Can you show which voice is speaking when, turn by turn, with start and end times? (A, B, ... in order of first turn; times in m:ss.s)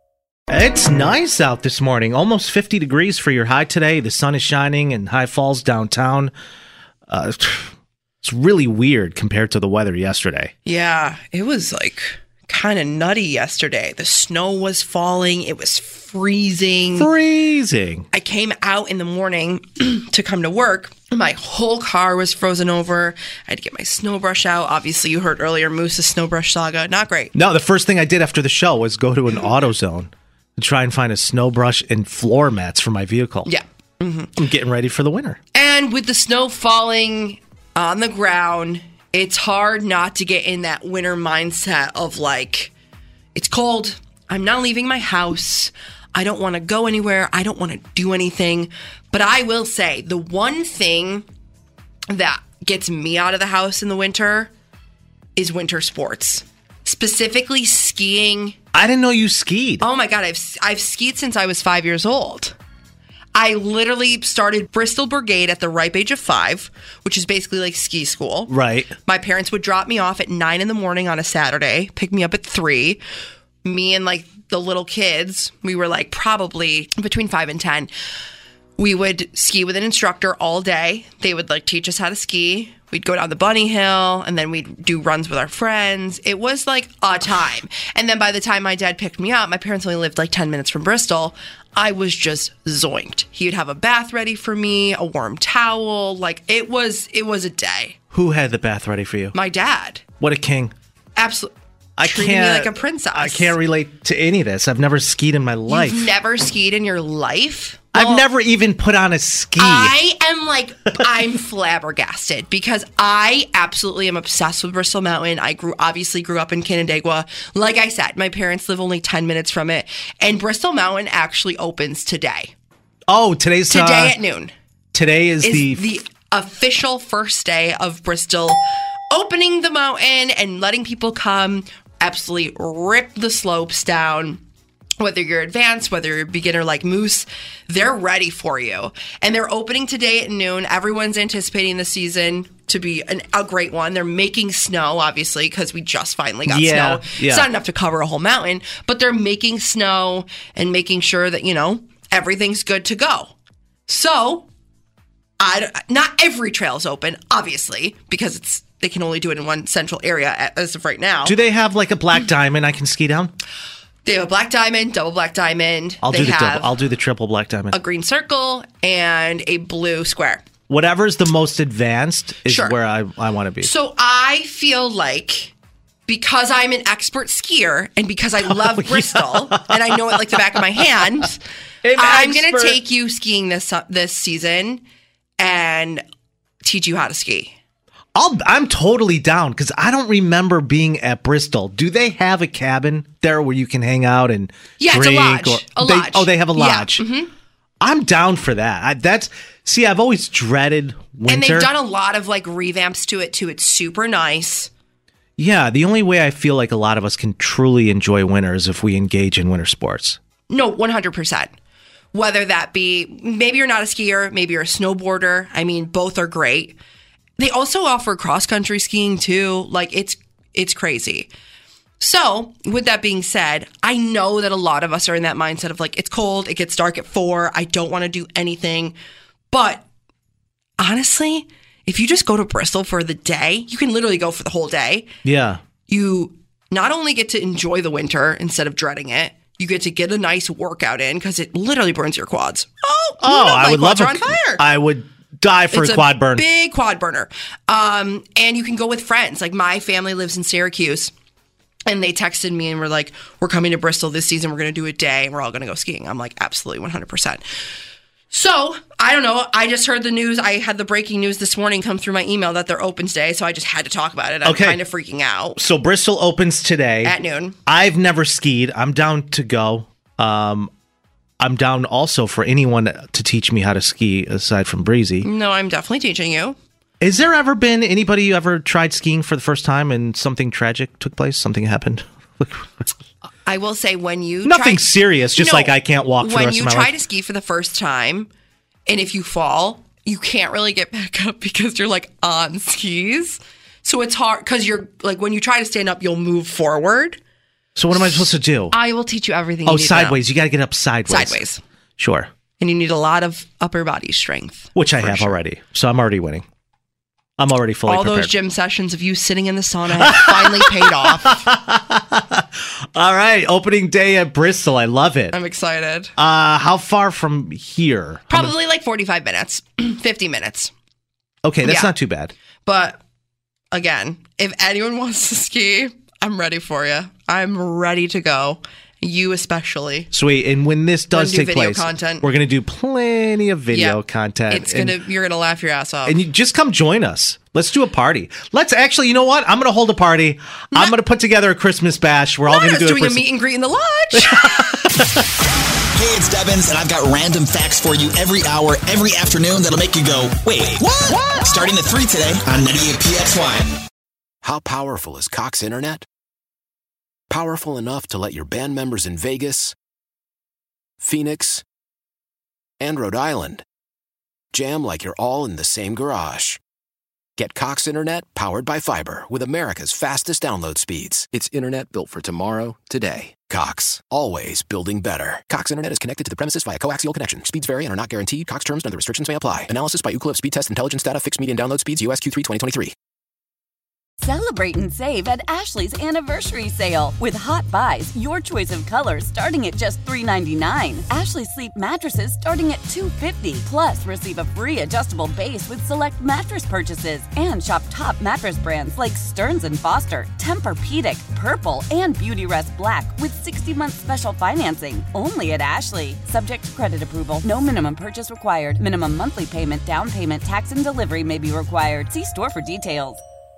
0:00.5-0:06.3 A
0:07.1-0:10.5 A
0:10.6-0:17.1 B
0:17.0-0:18.0 A
0:18.1-0:27.3 B
0:27.3-0:33.5 A
0:33.4-0:34.3 B
0:34.4-0:35.4 A
0:35.5-0:42.7 B
0:43.3-0:51.2 B
0:52.1-0:54.5 B
0:55.4-0:58.6 B
0:58.7-0:59.8 A
0:59.8-1:02.6 B
1:03.3-1:08.5 B
1:08.5-1:08.9 A
1:09.0-1:13.0 B
1:13.6-1:17.9 B
1:18.8-1:38.0 B
1:38.1-1:39.3 A
1:39.3-1:40.0 B
1:40.2-1:40.7 A
1:41.2-1:43.6 B
1:42.0-1:46.1 A
1:45.7-1:48.3 B
1:47.9-1:49.9 A
1:49.6-2:02.5 B
2:03.1-2:04.2 A
2:03.7-2:04.5 B
2:04.9-2:05.8 A
2:05.4-2:08.6 B
2:09.1-2:14.4 B
2:15.0-2:33.3 B
2:26.5-2:27.5 A
2:33.9-2:34.5 B
2:35.4-2:41.4 B
2:41.2-2:43.3 A
2:44.0-2:46.8 B
2:46.0-2:47.8 A
2:47.7-2:50.4 B
2:50.7-2:53.7 A
2:52.4-2:52.8 B
2:53.6-2:55.5 B
2:56.1-3:01.4 B
2:58.6-2:59.9 A
3:01.8-3:02.8 A
3:01.9-3:04.8 B
3:05.4-3:06.0 B
3:06.6-3:07.5 B
3:08.1-3:17.0 A
3:14.8-3:17.3 B
3:17.8-3:21.7 A
3:21.3-3:24.7 B
3:25.4-3:30.2 A
3:30.5-3:31.5 B
3:32.1-3:36.8 B
3:37.4-3:41.3 B
3:42.0-3:48.9 B
3:49.5-3:49.9 B
3:50.8-3:55.1 B
3:55.2-3:55.6 A
3:55.9-4:04.6 B
4:03.2-4:06.4 A
4:05.7-4:11.1 B
4:11.9-4:17.4 B
4:18.3-4:25.6 B
4:24.4-4:24.8 A
4:25.6-4:27.1 A
4:27.0-4:27.6 B
4:27.7-4:30.7 A
4:31.4-4:35.3 A
4:35.2-4:36.6 B
4:37.0-4:42.7 A
4:43.4-4:48.3 B
4:44.4-4:46.9 A
4:48.9-4:57.2 B
4:57.8-4:58.7 A
4:57.9-5:00.2 B
4:59.6-5:01.4 A
5:01.1-5:01.6 B
5:02.0-5:02.3 A
5:02.6-5:05.4 B
5:04.8-5:06.4 A
5:07.4-5:08.3 A
5:07.8-5:11.4 B
5:10.0-5:10.6 A
5:11.1-5:15.3 A
5:15.3-5:16.1 B
5:16.2-5:18.5 A
5:18.3-5:20.7 B
5:21.4-5:22.3 A
5:21.6-5:21.9 B
5:22.6-5:23.0 B
5:23.7-5:30.1 B
5:30.1-5:34.9 A
5:31.1-5:32.3 B
5:33.7-5:36.2 B
5:36.0-5:43.2 A
5:42.4-5:44.8 B
5:44.2-5:45.1 A
5:45.9-5:53.8 C
5:54.4-5:56.0 D
5:57.3-5:59.8 D
6:01.0-6:01.6 D
6:02.8-6:03.6 D
6:04.5-6:06.6 D
6:07.4-6:22.9 D
6:24.2-6:53.2 E